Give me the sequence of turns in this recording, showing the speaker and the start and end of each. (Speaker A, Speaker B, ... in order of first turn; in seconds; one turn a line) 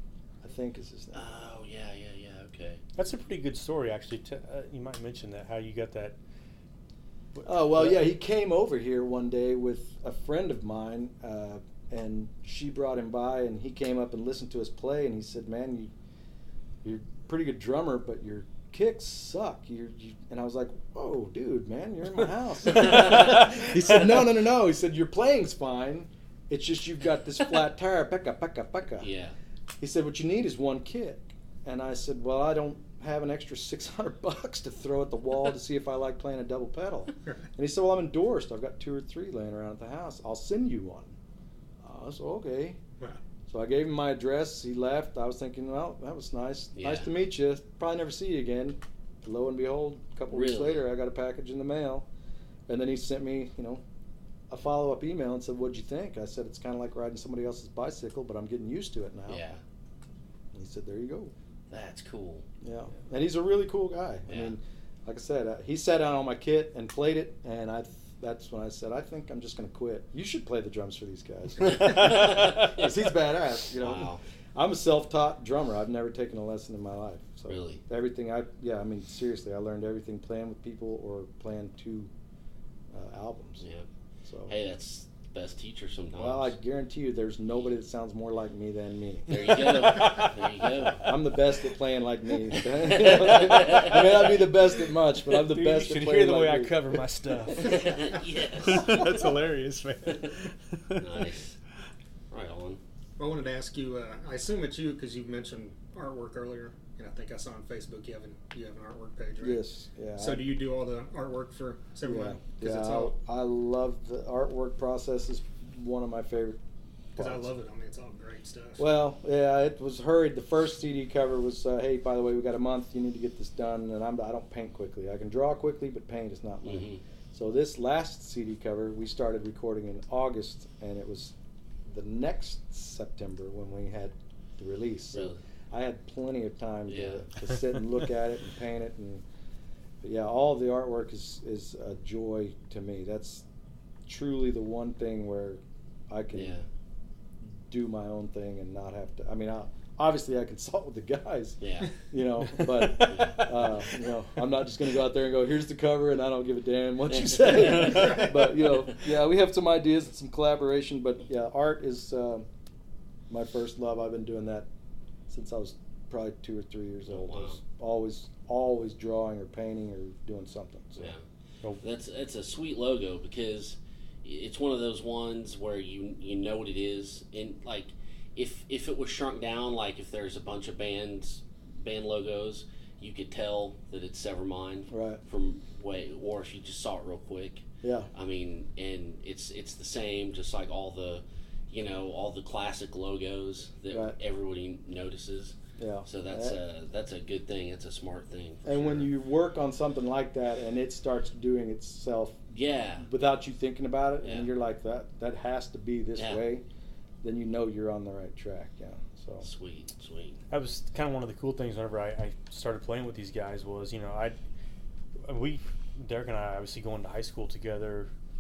Speaker A: 0.4-1.2
Speaker B: 1.1-2.8
Speaker C: 3.0-6.2
Speaker C: 7.3-8.0
Speaker A: 7.4-15.9
Speaker A: 16.8-29.1
Speaker C: 22.8-24.2
Speaker B: 29.0-29.3
Speaker A: 29.8-41.1
Speaker A: 41.8-42.8
Speaker A: 43.5-52.0
Speaker B: 46.8-47.1
Speaker B: 50.3-50.8
Speaker A: 52.7-53.8
Speaker A: 54.5-59.4
Speaker B: 59.3-59.6
Speaker A: 60.5-61.3
Speaker B: 61.7-62.5
Speaker A: 62.6-82.1
Speaker B: 64.3-64.5
Speaker B: 71.7-73.1
Speaker C: 71.8-72.6
Speaker B: 73.7-74.2
Speaker B: 77.5-77.8
Speaker A: 82.9-83.6
Speaker A: 84.2-84.5
Speaker B: 84.5-86.5
Speaker A: 86.2-90.3
Speaker B: 89.3-91.2
Speaker C: 89.5-90.3
Speaker A: 91.0-97.0
Speaker B: 92.7-94.3
Speaker C: 95.2-101.2
Speaker B: 97.6-99.0
Speaker B: 101.0-101.6
Speaker B: 102.3-102.8
Speaker D: 103.2-109.6
Speaker A: 109.4-110.5
Speaker D: 110.2-113.1
Speaker A: 112.0-116.6
Speaker A: 117.2-117.5
Speaker D: 117.2-118.8
Speaker A: 118.8-139.2
Speaker B: 126.6-127.0
Speaker B: 135.1-135.4
Speaker B: 136.9-137.3
Speaker A: 140.0-143.4
Speaker A: 144.1-146.6
Speaker B: 146.3-146.6
Speaker A: 147.4-162.4
Speaker B: 151.6-151.9
Speaker C: 152.4-153.6
Speaker B: 153.0-153.7
Speaker B: 157.1-159.0
Speaker D: 157.8-158.3
Speaker A: 163.3-164.7
Speaker A: 165.3-171.1
Speaker B: 167.1-167.6
Speaker B: 171.0-171.2
Speaker B: 171.8-195.5
Speaker A: 184.9-185.2
Speaker A: 187.8-188.1
Speaker A: 193.9-194.2
Speaker A: 195.8-196.6
Speaker B: 196.1-199.1
Speaker A: 198.6-202.5
Speaker B: 202.5-203.1
Speaker A: 203.0-206.6
Speaker B: 204.2-204.5
Speaker B: 206.2-206.4
Speaker A: 207.2-209.5
Speaker B: 209.4-210.4
Speaker C: 210.5-214.3
Speaker C: 215.2-218.1